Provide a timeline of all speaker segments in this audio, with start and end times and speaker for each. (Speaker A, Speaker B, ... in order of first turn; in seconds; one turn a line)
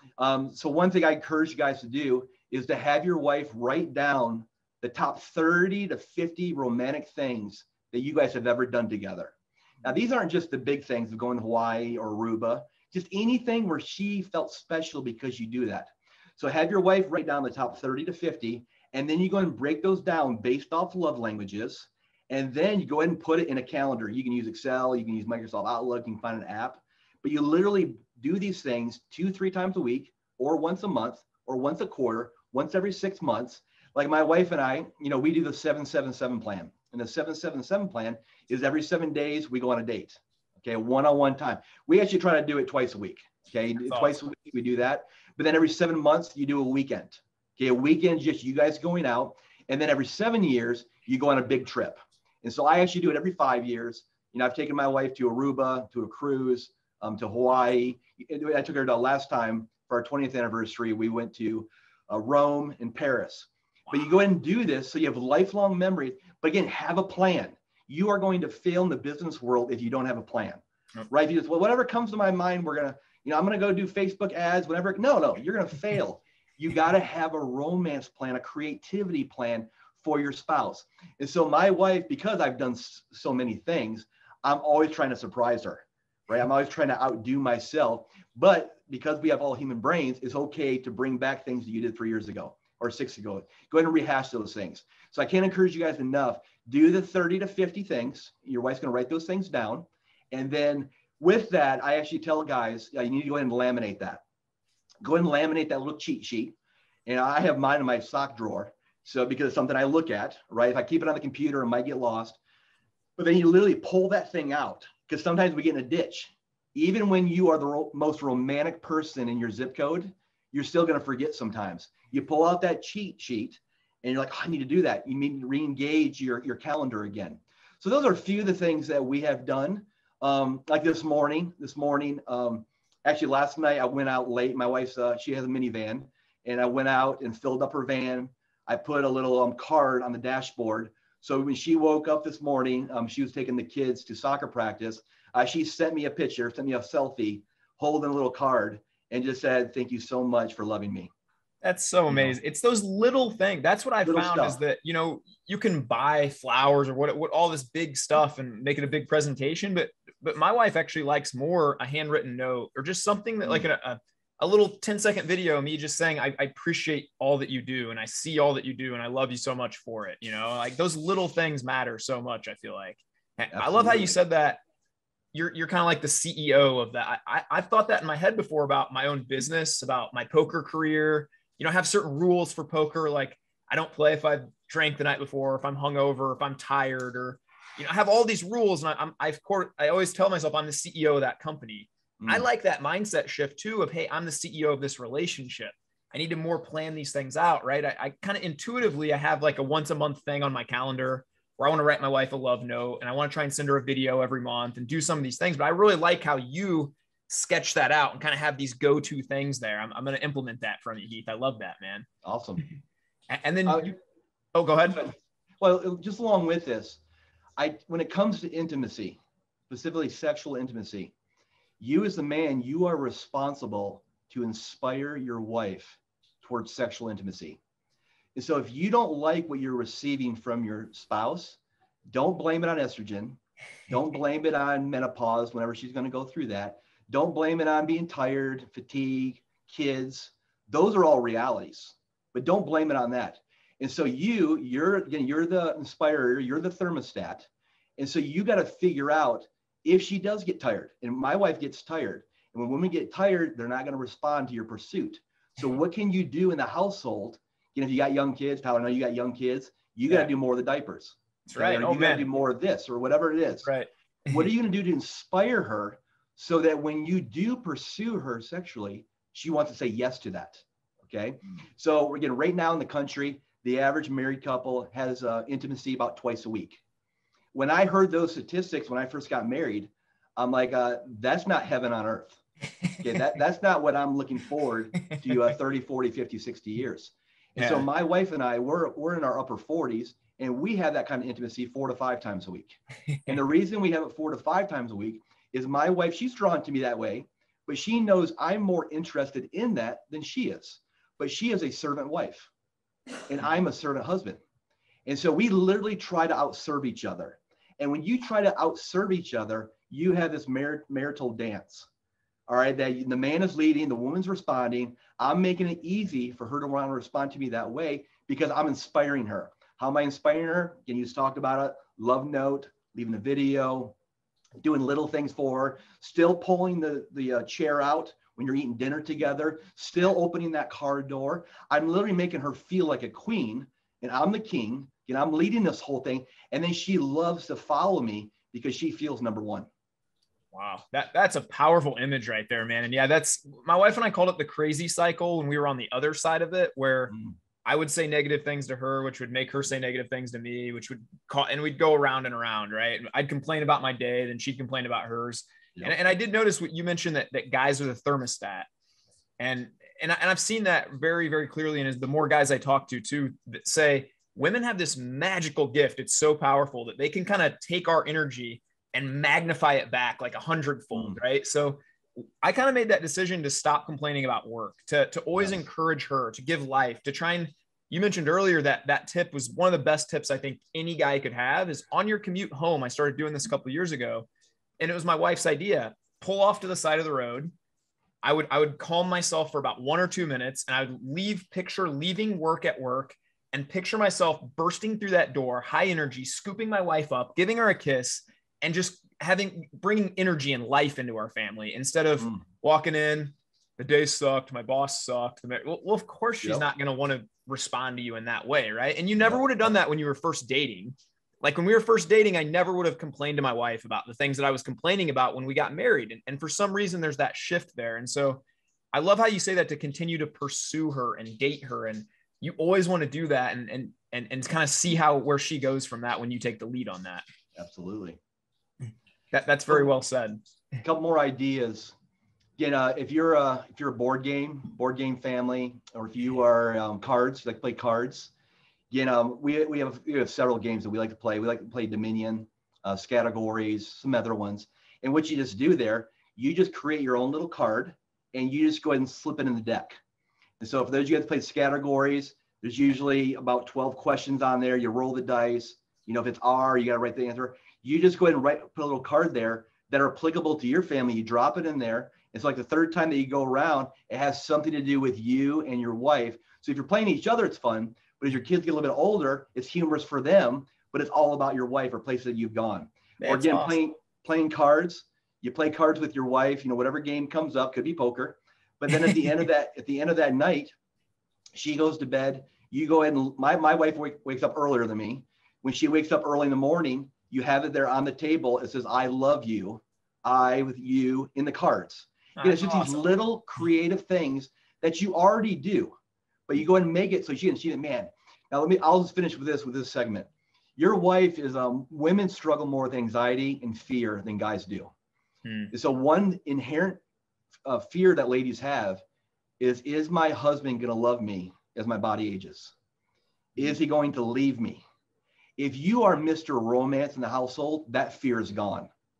Speaker A: 0.2-104.2
Speaker B: 43.9-44.1
Speaker A: 105.0-112.4
Speaker A: 113.2-151.1
Speaker B: 151.6-174.6
Speaker A: 152.1-152.3
Speaker A: 154.0-154.6
Speaker A: 173.5-174.2
Speaker B: 175.3-212.1
Speaker A: 192.2-192.5
Speaker A: 212.2-212.6
Speaker B: 213.3-214.0
Speaker A: 213.7-213.9
Speaker B: 214.5-215.1
Speaker A: 214.9-217.0
Speaker A: 217.6-221.1
Speaker A: 221.8-227.6
Speaker A: 228.3-263.7
Speaker B: 261.5-262.2
Speaker A: 264.3-276.8
Speaker A: 277.5-282.4
Speaker A: 283.0-302.5
Speaker B: 287.6-287.8
Speaker A: 303.3-304.4
Speaker A: 305.1-311.9
Speaker A: 312.5-323.9
Speaker A: 324.6-339.7
Speaker B: 340.5-358.7
Speaker B: 359.4-371.8
Speaker A: 370.9-371.2
Speaker B: 372.4-384.3
Speaker A: 375.3-375.6
Speaker B: 384.8-387.5
Speaker B: 388.2-427.2
Speaker A: 409.2-409.7
Speaker A: 427.6-428.2
Speaker B: 429.3-430.4
Speaker A: 430.8-431.9
Speaker A: 432.6-438.3
Speaker A: 438.9-450.0
Speaker A: 450.6-480.7
Speaker B: 473.2-473.8
Speaker A: 481.5-495.9
Speaker B: 492.4-493.0
Speaker A: 496.5-504.9
Speaker B: 505.4-505.7
Speaker A: 505.7-507.0
Speaker A: 507.6-509.0
Speaker A: 509.6-512.7
Speaker A: 513.5-514.8
Speaker A: 515.6-518.9